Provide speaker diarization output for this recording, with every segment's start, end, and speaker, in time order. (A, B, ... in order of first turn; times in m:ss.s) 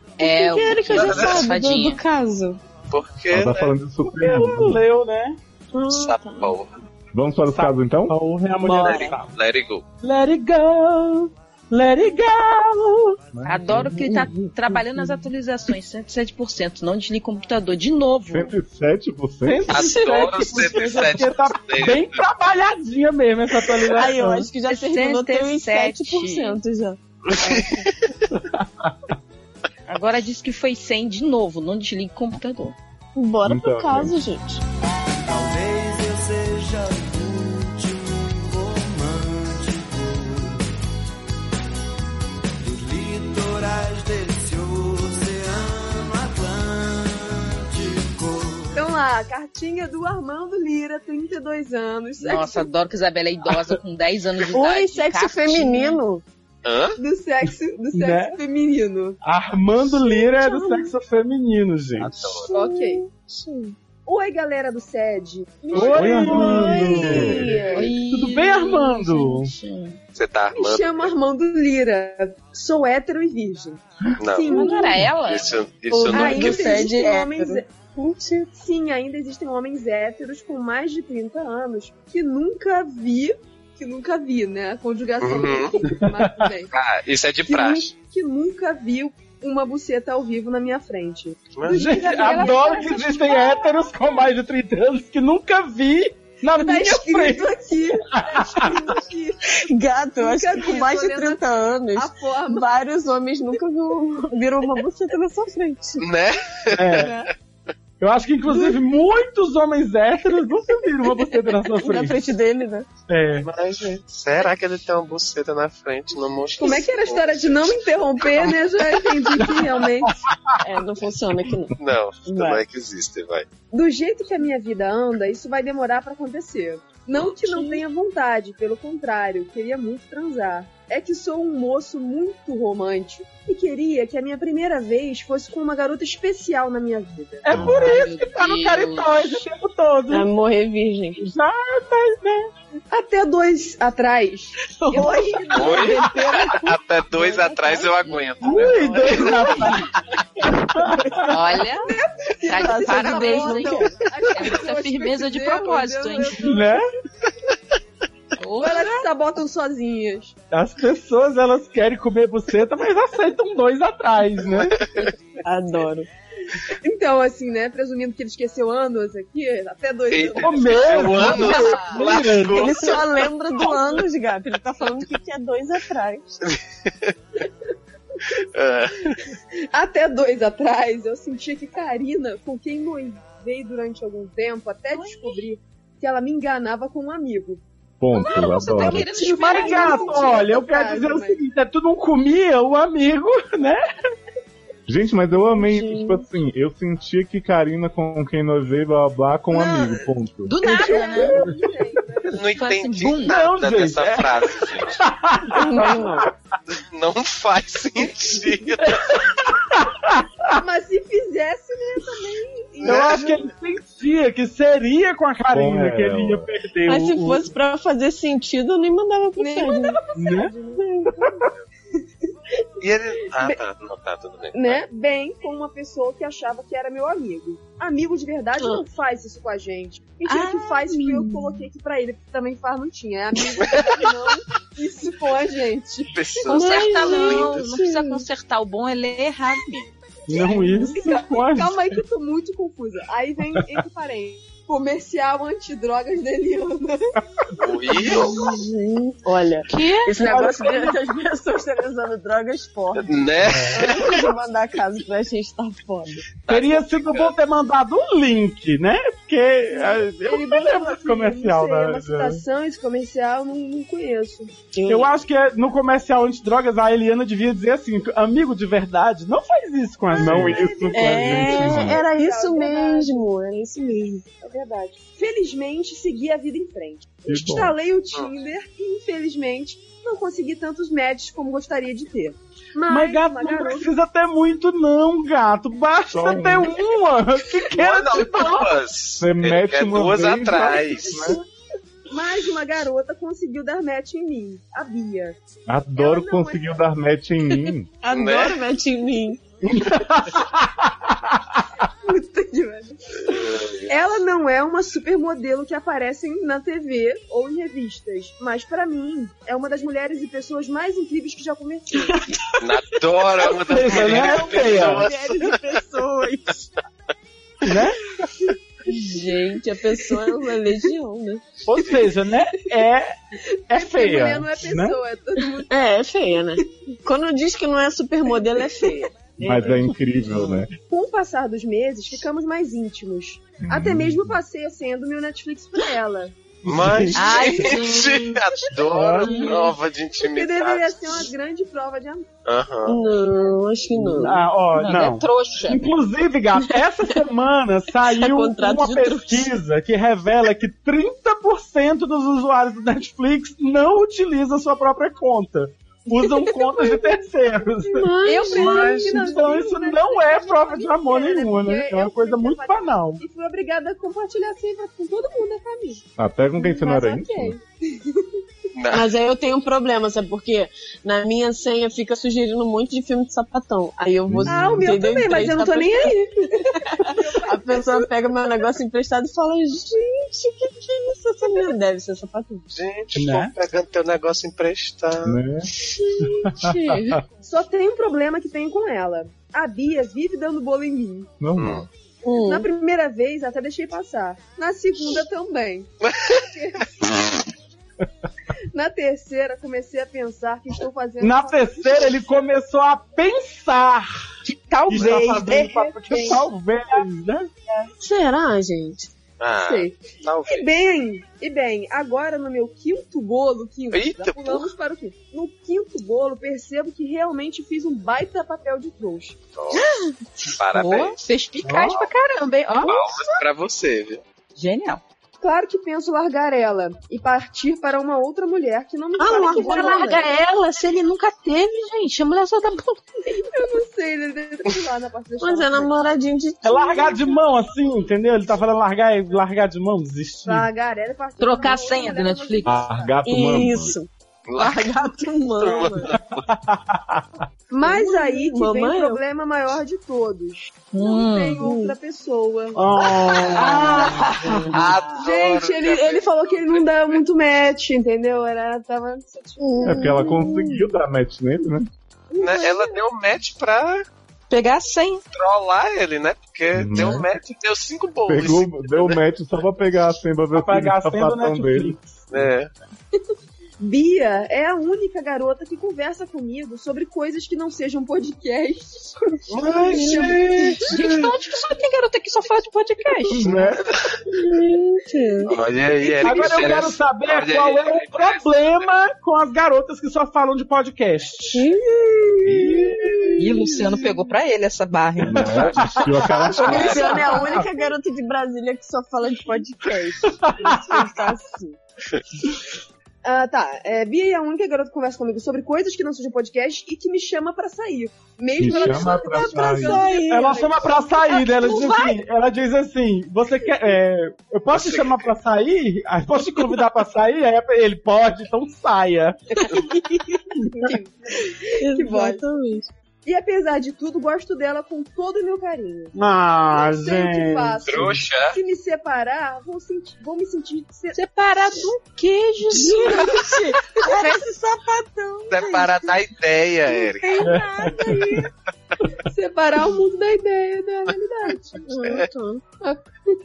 0:00.2-0:02.0 A
0:00.2-0:02.6 B
0:01.0-0:01.2 C
0:02.9-0:03.8 C
0:03.3-0:04.8 D
0:04.1-0:05.4 E
0:05.7-0:06.6 B
0:05.9-0:06.7 C
0:07.1-0:08.2 D
0:07.5-0:09.3 E
0:08.6-0:09.1 B
0:08.8-0:09.8 C
0:10.0-0:13.2 E
0:13.3-0:14.0 D
0:13.5-0:18.5 A
0:13.9-0:15.3 B
0:18.3-0:19.7 D
0:19.4-0:24.5 E
0:19.7-0:22.2 C
0:19.7-0:20.4 B
0:23.9-0:27.9 B
0:24.7-0:26.6 A
0:27.3-0:28.3 C
0:29.9-0:32.8 A
0:33.2-0:34.6 B
0:33.4-0:34.2 D
0:35.3-0:40.6 F
0:42.6-0:48.7 F
0:48.7-0:52.7 G
0:52.2-0:56.0 A
0:54.5-0:56.2 B
0:56.6-0:57.0 C
0:57.0-0:59.2 G
0:57.9-0:58.4 E
0:59.2-1:02.3 E
1:00.0-1:00.9 B
1:02.0-1:02.5 C
1:02.4-1:03.8 B
1:02.5-1:03.0 G
1:04.1-1:07.3 G
1:05.7-1:07.9 B
1:05.7-1:09.5 E
1:06.0-1:07.5 D
1:07.7-1:10.0 A
1:10.2-1:11.1 C
1:10.5-1:15.0 G
1:14.2-1:16.9 C
1:14.5-1:15.5 A
1:14.6-1:14.9 B
1:15.9-1:18.5 B
1:16.0-1:17.7 G
1:18.5-1:26.7 G
1:25.2-1:25.7 C
1:26.0-1:26.4 E
1:26.7-1:27.9 C
1:27.4-1:33.9 G
1:31.6-1:32.0 C
1:31.7-1:37.5 E
1:36.6-1:39.7 G
1:38.1-1:38.7 E
1:39.7-1:46.1 B
1:40.2-1:41.4 G
1:42.0-1:42.7 G
1:46.0-1:47.0 C
1:46.7-1:47.2 E
1:46.9-1:47.3 B
1:48.0-1:52.2 E
1:48.5-1:48.8 B
1:51.3-1:52.9 B
1:53.1-1:53.5 E
1:53.4-1:57.7 C
1:56.6-2:00.1 G
1:58.3-1:58.5 C
1:59.4-2:00.2 E
2:00.6-2:02.6 B
2:01.8-2:03.5 C
2:03.7-2:17.6 G
2:07.4-2:07.8 B
2:17.4-2:20.3 E
2:17.5-2:17.9 D
2:17.7-2:19.4 A
2:20.1-2:21.3 B
2:21.2-2:22.5 E
2:22.9-2:26.4 G
2:24.8-2:29.8 B
2:25.6-2:26.0 C
2:26.6-2:29.6 C
2:28.4-2:29.9 E
2:30.5-2:31.4 E
2:31.3-2:31.9 A
2:31.8-2:36.7 G
2:32.5-2:34.0 B
2:32.5-2:36.6 A
2:36.4-2:36.9 E
2:38.4-2:39.0 A
2:38.6-2:40.4 G
2:40.5-2:44.8 E
2:44.7-2:45.1 C
2:45.4-2:46.1 B
2:46.6-2:52.0 G
2:50.1-2:53.0 C
2:50.4-2:52.8 E
2:51.2-2:52.0 A
2:52.5-2:56.4 B
2:56.5-2:57.1 C
2:58.5-2:59.2 C
2:59.7-3:07.6 G
3:05.0-3:05.4 B
3:08.0-3:09.2 D
3:08.1-3:10.3 A
3:08.2-3:11.4 G
3:09.1-3:13.8 E
3:14.9-3:20.6 D
3:15.4-3:16.2 B
3:20.4-3:21.4 A
3:20.6-3:22.4 G
3:20.8-3:21.6 E
3:22.4-3:25.0 C
3:22.6-3:23.4 A
3:23.2-3:26.3 E
3:25.5-3:26.3 B
3:26.7-3:29.2 C
3:29.6-3:30.2 E
3:30.5-3:33.3 G
3:32.8-3:37.5 E
3:32.9-3:33.3 C
3:35.5-3:36.5 D
3:36.9-3:40.0 B
3:39.4-3:40.8 G
3:40.2-3:40.5 E
3:40.8-3:41.4 B
3:42.8-3:44.8 C
3:44.5-3:56.2 G
3:48.6-3:48.8 B
3:50.3-3:51.6 B
3:56.1-3:57.6 C
3:56.5-3:59.9 A
3:56.5-3:58.2 B
4:00.3-4:01.8 E
4:00.5-4:00.9 B
4:00.8-4:07.1 G
4:07.6-4:08.4 C
4:08.0-4:13.2 B
4:09.7-4:10.2 A
4:10.2-4:11.0 E
4:12.9-4:14.2 C
4:13.7-4:16.3 B
4:16.4-4:17.3 C
4:16.5-4:22.4 E
4:19.8-4:24.5 G
4:24.7-4:25.1 B
4:24.9-4:30.7 E
4:30.1-4:33.3 G
4:30.1-4:32.0 D
4:30.9-4:34.2 B
4:34.4-4:43.9 G
4:37.3-4:37.8 D
4:42.9-4:48.8 E
4:46.1-4:46.8 D
4:47.7-4:51.3 C
4:49.2-4:51.4 D
4:52.1-4:55.4 G
4:55.7-4:57.9 D
4:56.0-4:56.8 G
4:58.0-4:59.4 B
4:58.1-4:58.6 C
4:59.6-5:01.6 E
5:02.1-5:12.2 G
5:03.2-5:03.9 C
5:11.9-5:16.7 B
5:12.6-5:15.6 C
5:13.6-5:15.1 E
5:17.7-5:18.0 E
5:18.9-5:21.6 B
5:21.7-5:23.2 E
5:23.7-5:25.0 E
5:23.7-5:25.7 G
5:25.7-5:29.8 B
5:29.4-5:30.7 D
5:29.4-5:29.9 E
5:30.9-5:36.4 G
5:33.6-5:34.4 D
5:36.7-5:41.3 C
5:36.7-5:37.4 E
5:37.2-5:38.4 A
5:38.8-5:39.6 E
5:39.3-5:39.6 A
5:40.2-5:42.3 G
5:42.4-5:43.0 C
5:42.9-5:44.4 B
5:44.0-6:03.2 E
5:44.7-5:45.9 A
5:48.1-5:49.5 B
5:56.2-5:57.2 B
5:57.8-5:59.3 B
5:58.2-6:06.0 G
6:06.2-6:07.6 D
6:06.6-6:08.2 G
6:08.8-6:09.1 C
6:08.9-6:22.7 B
6:14.3-6:14.8 D
6:14.5-6:18.1 G
6:22.7-6:25.4 C
6:23.1-6:23.5 E
6:25.2-6:25.7 D
6:25.9-6:27.2 B
6:27.4-6:31.3 G
6:31.4-6:31.9 D
6:31.6-6:31.9 C
6:32.2-6:32.7 B
6:32.4-6:37.1 G
6:36.0-6:36.4 C
6:38.7-6:42.4 G
6:41.2-6:44.1 E
6:44.5-6:46.4 A
6:44.9-6:47.5 E
6:45.4-6:46.3 G
6:48.0-6:49.1 B
6:49.4-6:50.7 C
6:49.6-6:59.4 G
6:53.9-6:54.7 C
6:59.6-6:59.9 C
6:59.7-7:00.1 B
7:00.6-7:01.2 C
7:00.7-7:03.0 A
7:01.6-7:02.1 E
7:02.8-7:04.2 C
7:04.6-7:05.0 A
7:05.4-7:10.3 G
7:09.2-7:10.3 B
7:09.5-7:13.0 A
7:13.3-7:15.9 G
7:15.4-7:17.4 B
7:16.6-7:20.7 E
7:20.5-7:23.2 G
7:21.4-7:22.7 A
7:22.6-7:24.0 D
7:23.2-7:26.1 B
7:24.5-7:25.0 C
7:25.6-7:26.4 C
7:26.4-7:27.2 E
7:27.7-7:33.6 G
7:27.8-7:29.2 B
7:30.9-7:31.6 A
7:31.6-7:32.0 B
7:32.7-7:34.7 E
7:33.5-7:35.1 A
7:34.7-7:37.2 C
7:35.2-7:40.3 G
7:39.6-7:40.9 B
7:39.8-7:41.9 D
7:42.3-7:43.0 B
7:42.4-7:44.0 C
7:44.5-7:45.2 A
7:45.3-7:49.2 C
7:46.7-7:47.3 D
7:48.3-7:52.0 D
7:50.5-7:52.3 E
7:52.3-7:52.7 C
7:53.8-8:00.7 G
7:59.5-8:01.2 E
7:59.9-8:00.9 B
8:00.8-8:03.5 A
8:03.3-8:03.8 D
8:03.9-8:04.1 C
8:04.3-8:05.5 B
8:05.5-8:08.9 C
8:06.2-8:11.7 E
8:11.5-8:13.0 B
8:12.6-8:13.8 E
8:13.4-8:15.7 A
8:15.2-8:17.2 D
8:15.8-8:16.5 E
8:16.5-8:17.2 C
8:16.6-8:21.8 B
8:20.4-8:20.8 E
8:23.2-8:32.0 G
8:28.6-8:30.1 D
8:28.6-8:30.7 B
8:30.3-8:39.4 E
8:34.7-8:35.3 C
8:39.6-8:41.0 B
8:40.7-8:42.4 G
8:41.8-8:42.9 B
8:43.2-8:46.2 G
8:46.2-8:48.2 E
8:46.7-8:51.2 G
8:47.9-8:48.6 C
8:51.1-8:53.6 A
8:52.7-8:56.1 B
8:55.5-8:57.4 C
8:56.9-8:58.5 B
8:57.5-8:58.3 E
8:58.0-8:58.4 G
8:59.2-9:01.8 G
9:01.8-9:02.6 B